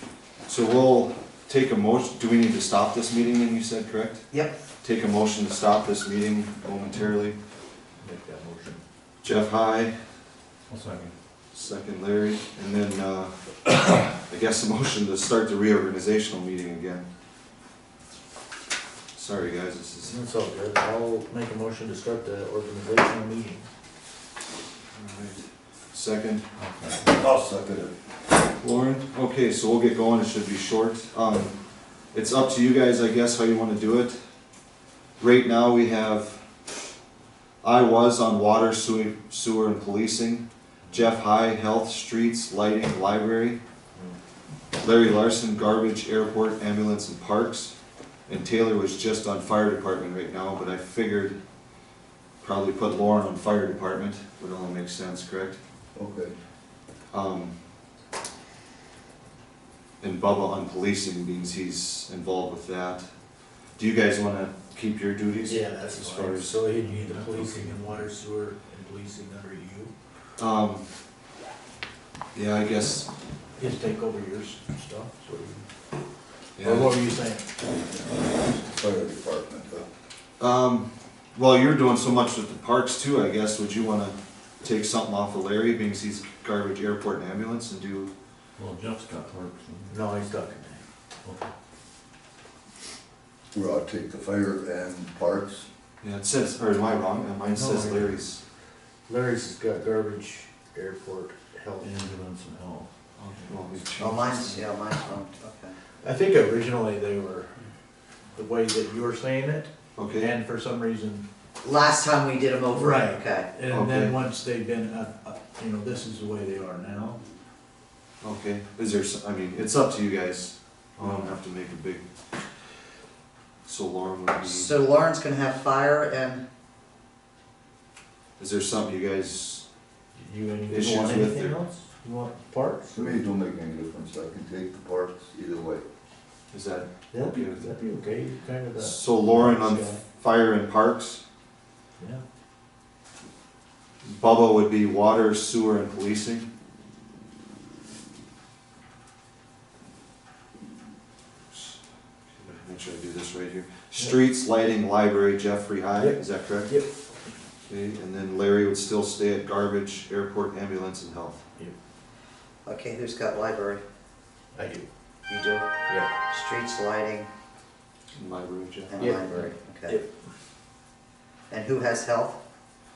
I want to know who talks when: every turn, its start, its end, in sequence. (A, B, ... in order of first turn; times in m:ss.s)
0:00.5-0:04.3 A
0:04.3-0:04.6 B
0:04.8-0:07.4 A
0:08.0-0:08.8 C
0:09.2-0:10.0 A
0:10.7-0:11.1 D
0:11.5-0:17.1 A
0:19.1-0:20.2 A
0:20.0-0:23.7 C
0:25.0-0:25.4 A
0:25.9-0:26.4 A
0:26.6-0:27.2 D
0:27.1-0:28.0 E
0:28.6-0:31.6 A
0:32.1-0:34.2 A
0:35.2-0:36.4 A
0:37.6-0:43.6 A
0:44.8-0:47.8 A
0:48.3-0:51.4 A
0:52.4-0:55.6 A
0:56.0-0:56.3 E
0:57.1-0:57.6 A
1:00.0-1:03.1 A
1:03.8-1:06.6 A
1:05.4-1:09.9 C
1:06.7-1:08.1 D
1:10.4-1:10.9 A
1:12.3-1:13.1 A
1:13.6-1:15.7 C
1:16.6-1:17.0 A
1:16.6-1:17.5 C
1:18.4-1:19.9 E
1:20.4-1:28.1 A
1:28.6-1:30.0 D
1:29.9-1:30.8 C
1:31.2-1:31.5 D
1:33.5-1:35.7 E
1:36.0-1:38.4 A
1:37.5-1:38.2 C
1:39.1-1:42.0 C
1:41.8-1:42.9 D
1:43.2-1:44.6 A
1:44.0-1:45.8 B
1:46.0-1:47.7 C
1:48.3-1:51.2 C
1:50.0-1:50.3 A
1:51.6-1:53.5 B
1:52.7-1:57.2 C
1:53.7-1:54.2 A
1:58.2-2:02.0 A
2:01.0-2:01.4 C
2:03.6-2:04.8 A
2:04.4-2:06.4 B
2:08.4-2:09.6 A
2:10.2-2:13.2 C
2:10.7-2:11.6 A
2:12.9-2:15.9 E
2:16.5-2:17.8 A
2:17.1-2:20.0 C
2:18.8-2:21.2 A
2:22.0-2:22.2 C
2:24.0-2:26.5 A
2:31.5-2:31.8 A
2:32.3-2:36.7 A
2:36.0-2:36.9 C
2:37.7-2:41.4 A
2:42.6-2:43.8 B
2:44.6-2:44.9 C
2:45.3-2:45.7 B
2:46.3-2:47.3 B
2:48.2-2:49.1 A
2:48.9-2:50.0 B
2:49.0-2:50.1 C
2:51.5-2:52.4 B